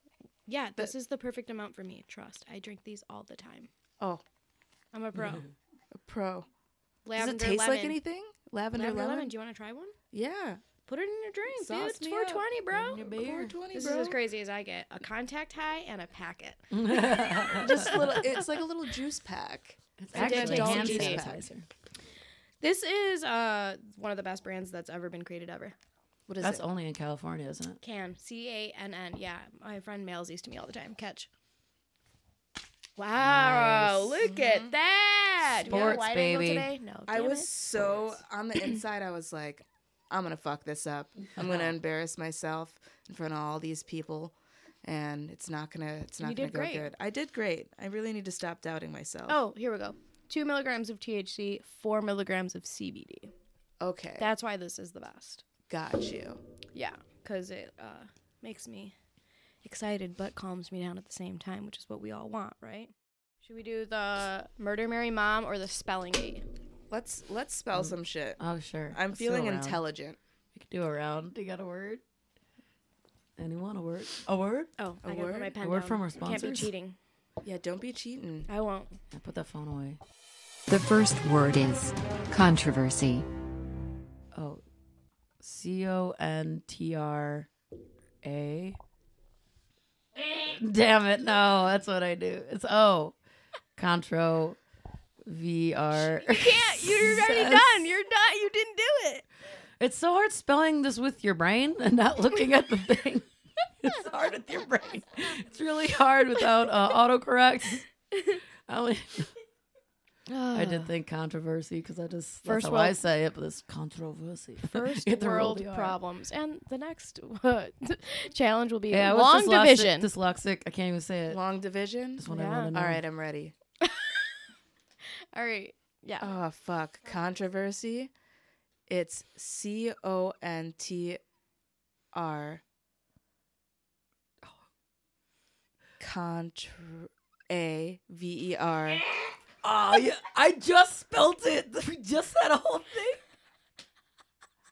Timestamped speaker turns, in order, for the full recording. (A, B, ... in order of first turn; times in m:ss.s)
0:00.5-0:03.7 A
0:04.9-0:05.4 A
0:05.2-0:05.5 B
0:06.0-0:06.5 C
0:07.0-0:08.0 A
0:07.2-0:09.3 C
0:08.7-0:09.9 A
0:10.1-0:10.6 C
0:10.8-0:13.1 A
0:11.5-0:12.5 C
0:12.7-0:13.6 B
0:13.0-0:14.2 C
0:13.7-0:18.4 A
0:16.7-0:18.1 B
0:17.6-0:21.5 C
0:20.0-0:21.7 B
0:20.1-0:21.2 A
0:22.6-0:25.7 A
0:26.3-0:26.6 C
0:26.4-0:27.8 B
0:27.8-0:31.3 A
0:33.0-0:38.1 A
0:33.2-0:34.2 B
0:34.3-0:34.7 C
0:35.6-0:36.0 C
0:35.7-0:36.7 B
0:37.1-0:49.4 C
0:41.3-0:41.8 B
0:46.2-0:46.9 A
0:49.3-0:53.3 A
0:53.8-0:54.3 C
0:54.2-0:55.4 A
0:55.7-0:56.4 C
0:56.7-0:58.9 A
0:59.6-1:06.4 A
1:06.9-1:08.4 C
1:07.7-1:09.8 B
1:08.9-1:10.2 C
1:10.5-1:12.0 B
1:13.4-1:14.7 B
1:14.8-1:17.0 A
1:15.0-1:15.5 C
1:15.6-1:16.7 B
1:17.4-1:18.5 C
1:18.5-1:19.0 A
1:19.1-1:20.0 B
1:20.7-1:23.2 D
1:24.3-1:24.6 B
1:25.4-1:27.5 B
1:28.2-1:28.8 B
1:30.1-1:33.2 B
1:33.8-1:34.6 B
1:35.2-1:37.8 B
1:36.2-1:39.2 A
1:39.8-1:43.3 B
1:43.8-1:47.9 B
1:48.7-1:49.3 B
1:50.3-1:50.9 A
1:50.5-1:56.0 B
1:52.4-1:53.0 A
1:54.6-2:00.1 A
1:58.9-2:01.4 B
2:01.3-2:03.5 C
2:02.2-2:03.0 B
2:02.3-2:02.7 A
2:03.8-2:04.3 A
2:05.3-2:06.3 A
2:06.2-2:08.1 C
2:08.9-2:11.2 C
2:12.1-2:12.6 C
2:16.0-2:19.0 C
2:19.1-2:23.2 B